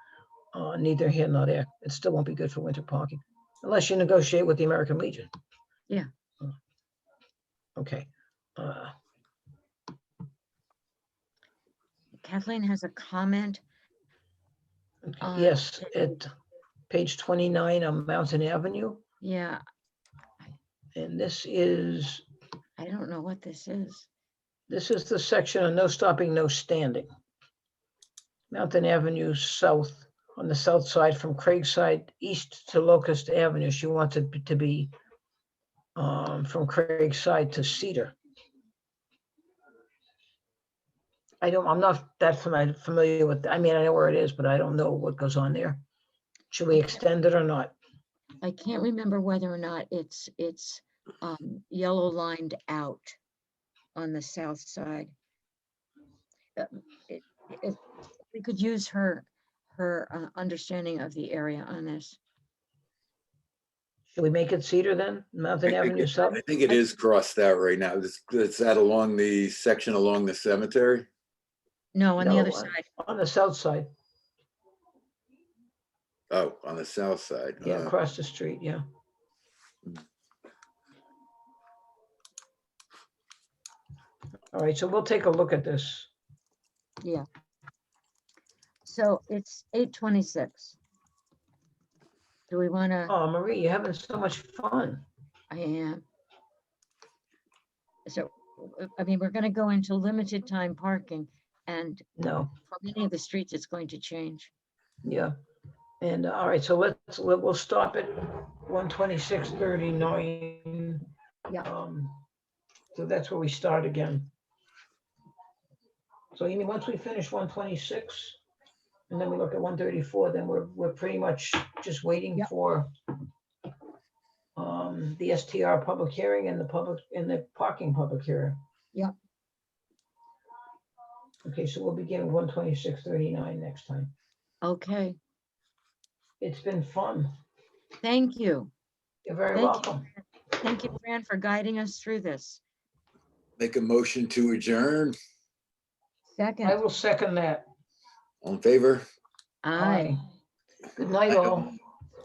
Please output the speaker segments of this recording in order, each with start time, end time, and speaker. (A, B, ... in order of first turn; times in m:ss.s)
0:00.5-0:05.3 A
0:07.8-0:08.9 A
0:12.2-0:13.6 B
0:15.2-0:16.3 A
0:15.2-0:16.0 B
0:16.9-0:19.0 A
0:19.2-0:19.6 B
0:21.0-0:22.2 A
0:22.8-0:24.1 B
0:24.7-0:27.1 A
0:28.5-0:34.9 A
0:36.0-0:38.2 A
0:41.4-0:45.8 A
0:46.5-0:47.8 A
0:48.4-0:53.2 B
0:54.0-0:55.1 B
0:56.6-0:57.8 B
0:58.3-1:02.2 B
1:04.1-1:06.4 A
1:05.7-1:11.1 C
1:12.0-1:12.8 B
1:12.2-1:13.9 A
1:16.3-1:17.9 C
1:17.6-1:18.8 A
1:24.5-1:26.1 A
1:28.8-1:30.8 B
1:32.5-1:33.1 B
1:33.1-1:35.0 A
1:35.5-1:36.0 B
1:38.1-1:42.0 B
1:42.2-1:42.5 A
1:42.7-1:44.5 B
1:45.0-1:45.3 A
1:46.0-1:51.0 A
1:51.6-1:52.2 A
1:52.9-1:54.3 A
1:56.3-1:58.4 A
1:59.1-2:02.9 A
2:04.6-2:08.6 A
2:11.4-2:14.1 A
2:14.6-2:15.2 B
2:16.4-2:17.3 A
2:18.0-2:18.7 B
2:19.3-2:20.1 A
2:19.5-2:22.6 B
2:23.6-2:25.2 C
2:26.4-2:26.8 B
2:26.6-2:27.7 A
2:28.4-2:29.0 C
2:29.6-2:30.2 B
2:29.8-2:30.2 A
2:31.0-2:31.8 A